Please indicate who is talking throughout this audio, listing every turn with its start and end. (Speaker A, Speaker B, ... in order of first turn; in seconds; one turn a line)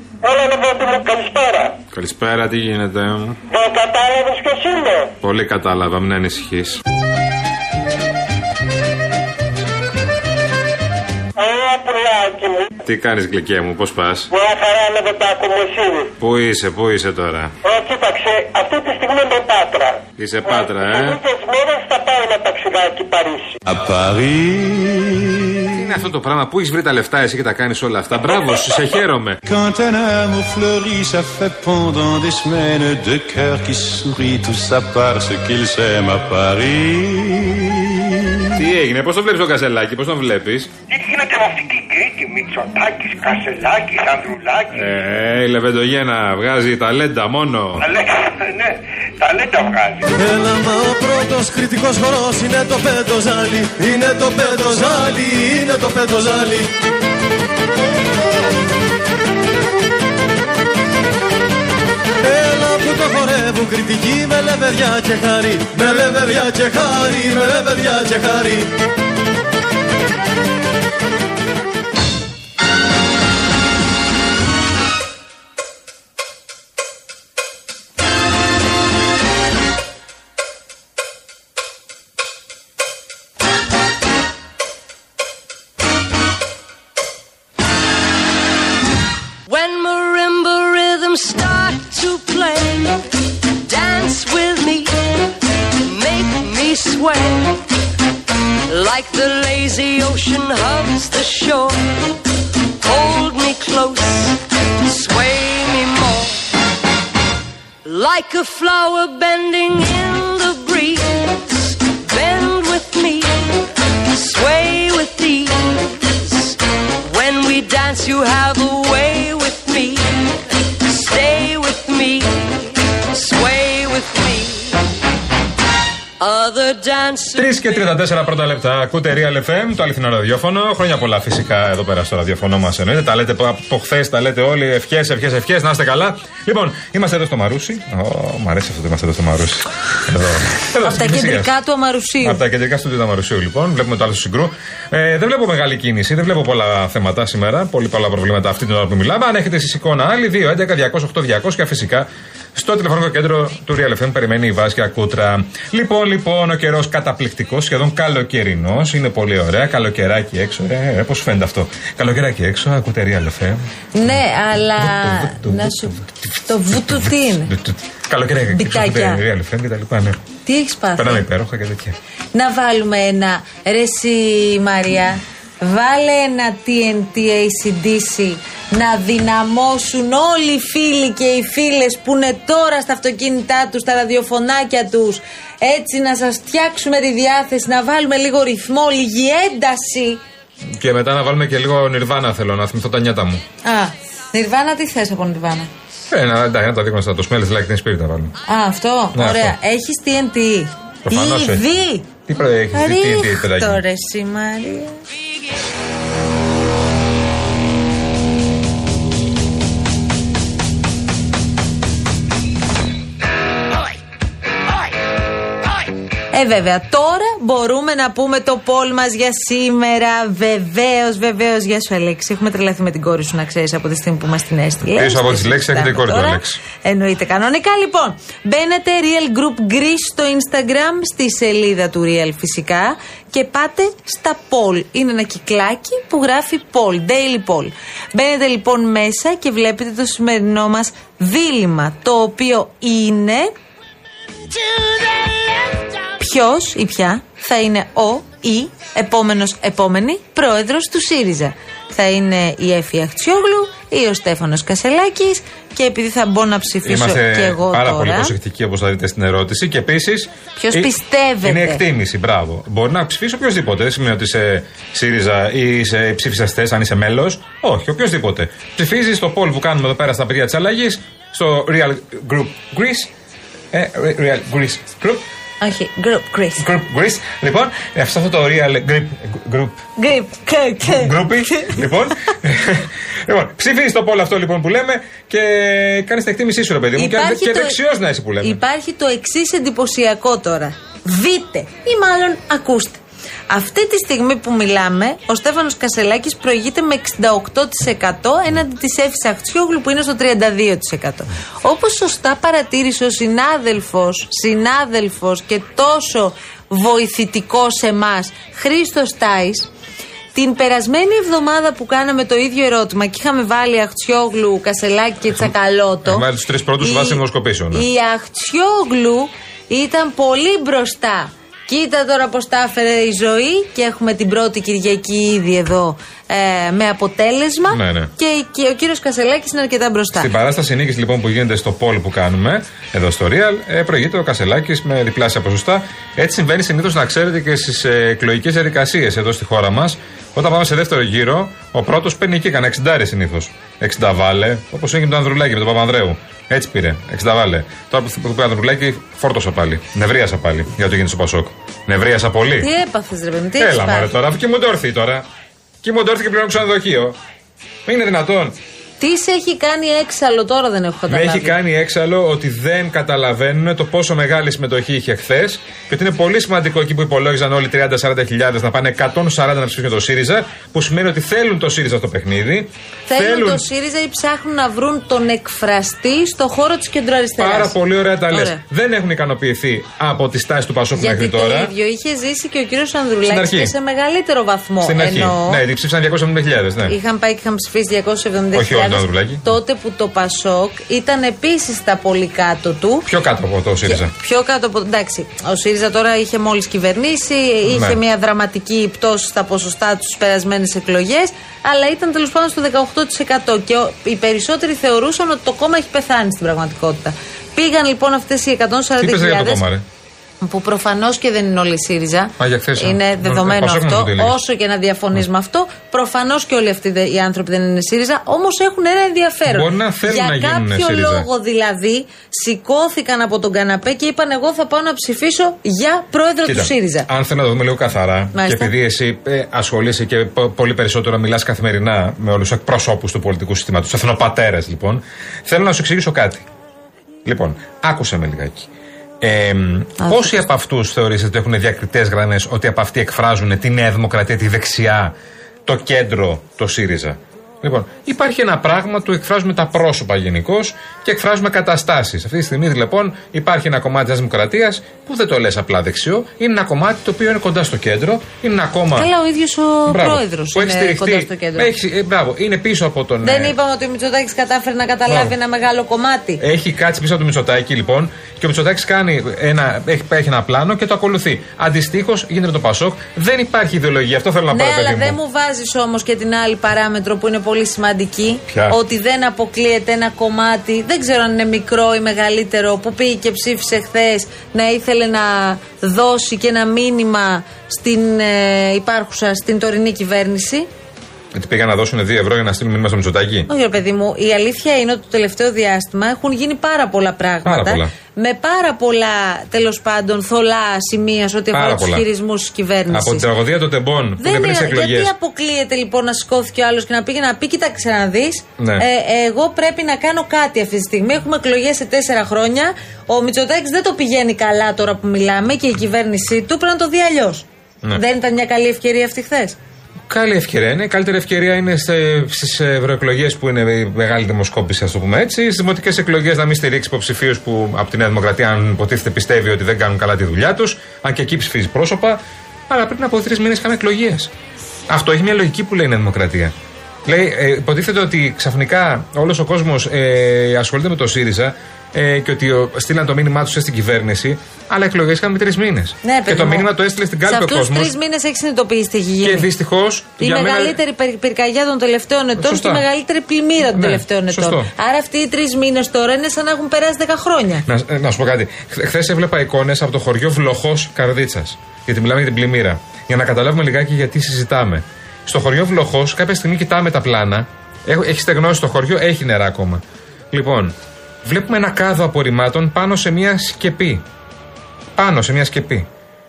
Speaker A: 0.2-1.8
Speaker B: 1.9-3.4
Speaker A: 3.5-5.1
Speaker B: 5.2-6.8
Speaker A: 11.4-12.7
Speaker B: 12.8-14.3
Speaker A: 14.3-16.1
Speaker B: 16.2-17.5
Speaker A: 17.6-23.6
Speaker B: 20.2-21.2
Speaker C: 23.6-25.9
Speaker B: 25.7-29.4
Speaker C: 29.4-38.6
Speaker B: 38.5-40.7
Speaker A: 40.9-44.9
Speaker B: 44.7-47.9
Speaker A: 47.8-50.0
Speaker D: 50.1-56.7
Speaker D: 62.2-68.7
Speaker E: 89.5-93.0
Speaker E: 93.7-95.0
Speaker E: 95.8-97.6
Speaker E: 98.7-101.9
Speaker E: 102.8-106.4
Speaker E: 107.8-122.5
Speaker E: 123.1-124.8
Speaker E: 126.2-127.8
Speaker B: 127.3-141.5
Speaker F: 140.8-142.4
Speaker B: 142.2-170.2
Speaker F: 163.9-167.5
Speaker F: 168.5-169.2
Speaker F: 170.4-171.2
Speaker B: 170.9-171.9
Speaker F: 172.3-190.2
Speaker B: 190.7-193.4
Speaker F: 193.6-195.7
Speaker B: 196.1-198.3
Speaker F: 198.5-202.1
Speaker B: 199.1-199.5
Speaker B: 201.1-201.6
Speaker B: 202.2-203.8
Speaker F: 202.7-205.0
Speaker F: 216.3-243.5
Speaker B: 224.9-226.6
Speaker F: 246.2-258.3
Speaker B: 256.8-273.1
Speaker F: 260.6-261.8
Speaker B: 273.7-275.2
Speaker F: 275.6-276.6
Speaker B: 276.6-279.8
Speaker F: 280.0-281.8
Speaker B: 280.8-288.6
Speaker F: 286.9-287.8
Speaker F: 288.4-309.7
Speaker F: 310.3-316.3
Speaker B: 316.0-317.9
Speaker F: 316.8-330.3
Speaker B: 327.7-328.1
Speaker B: 330.1-352.7
Speaker F: 352.6-354.1
Speaker B: 353.6-355.2
Speaker B: 355.8-357.2
Speaker B: 357.9-358.6
Speaker F: 359.0-361.6
Speaker B: 361.1-373.6
Speaker F: 373.1-377.8
Speaker B: 377.4-381.7
Speaker F: 378.3-378.6
Speaker F: 380.9-385.6
Speaker B: 383.2-383.7
Speaker B: 384.8-386.9
Speaker F: 386.9-393.1
Speaker B: 388.5-389.6
Speaker B: 393.0-394.1
Speaker F: 393.9-409.6
Speaker B: 397.6-398.0
Speaker B: 409.0-409.8
Speaker F: 410.4-427.1
Speaker B: 412.4-414.4
Speaker B: 419.4-421.3
Speaker B: 426.4-436.4
Speaker F: 428.3-428.7
Speaker B: 437.2-438.7
Speaker B: 439.2-445.1
Speaker F: 440.0-440.4
Speaker B: 445.6-459.1
Speaker F: 458.9-461.7
Speaker B: 459.9-463.5
Speaker F: 463.2-466.4
Speaker B: 465.1-465.3
Speaker B: 466.4-475.2
Speaker F: 474.5-490.7
Speaker B: 478.5-478.8
Speaker B: 491.3-493.5
Speaker F: 493.5-503.3
Speaker B: 497.4-497.9
Speaker B: 501.5-502.1
Speaker B: 502.9-505.1
Speaker F: 504.2-519.6
Speaker B: 508.6-508.8
Speaker B: 520.1-534.3
Speaker B: 534.9-536.5
Speaker B: 537.0-547.9
Speaker F: 546.0-546.7
Speaker F: 547.2-549.5
Speaker B: 549.2-550.8
Speaker F: 550.2-557.6
Speaker B: 552.4-552.8
Speaker B: 553.7-554.7
Speaker B: 557.6-574.0
Speaker B: 575.0-575.9